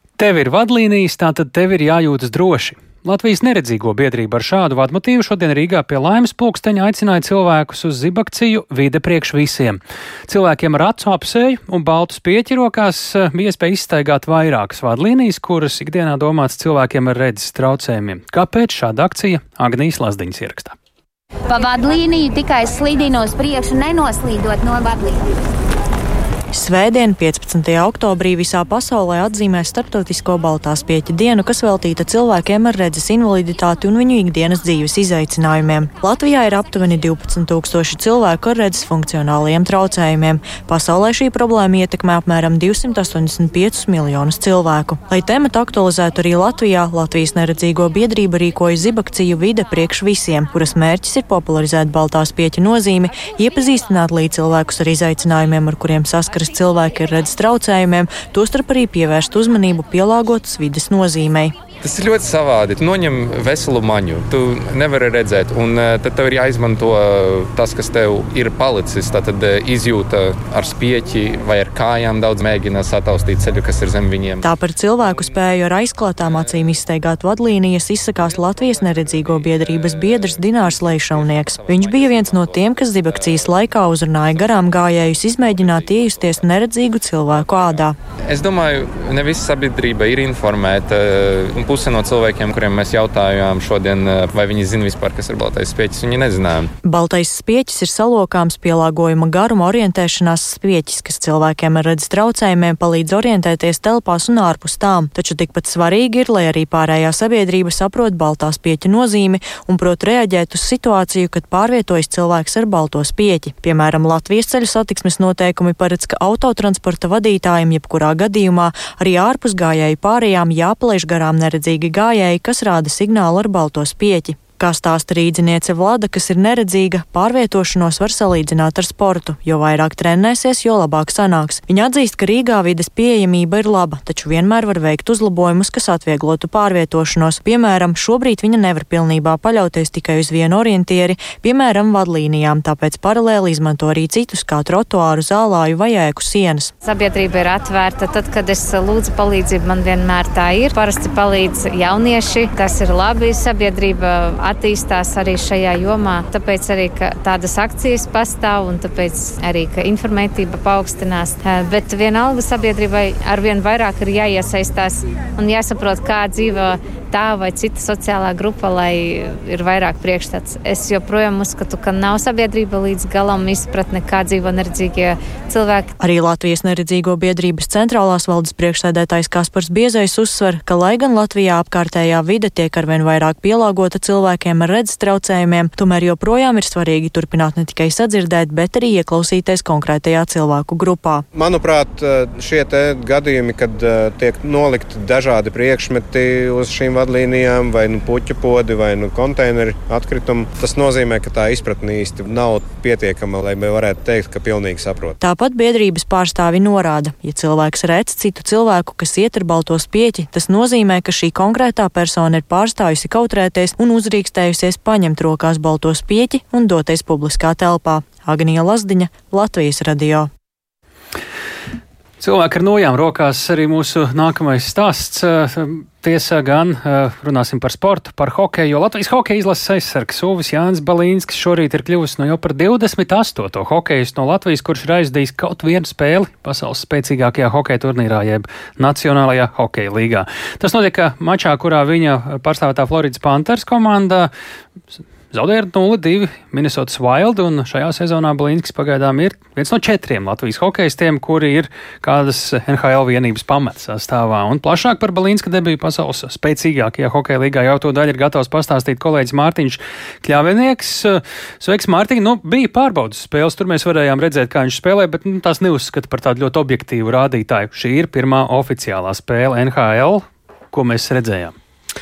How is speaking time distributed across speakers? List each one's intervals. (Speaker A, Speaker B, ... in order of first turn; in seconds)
Speaker A: 0.2-20.8, 222.2-244.3, 245.3-271.5
Speaker B: 21.5-25.1, 146.8-175.9
Speaker C: 26.5-61.5, 74.4-88.0, 96.8-146.7, 176.0-191.2, 205.2-220.3
Speaker D: 61.8-75.4, 76.2-76.8, 78.2-83.7, 84.3-86.5, 88.2-96.7
Speaker E: 191.3-205.2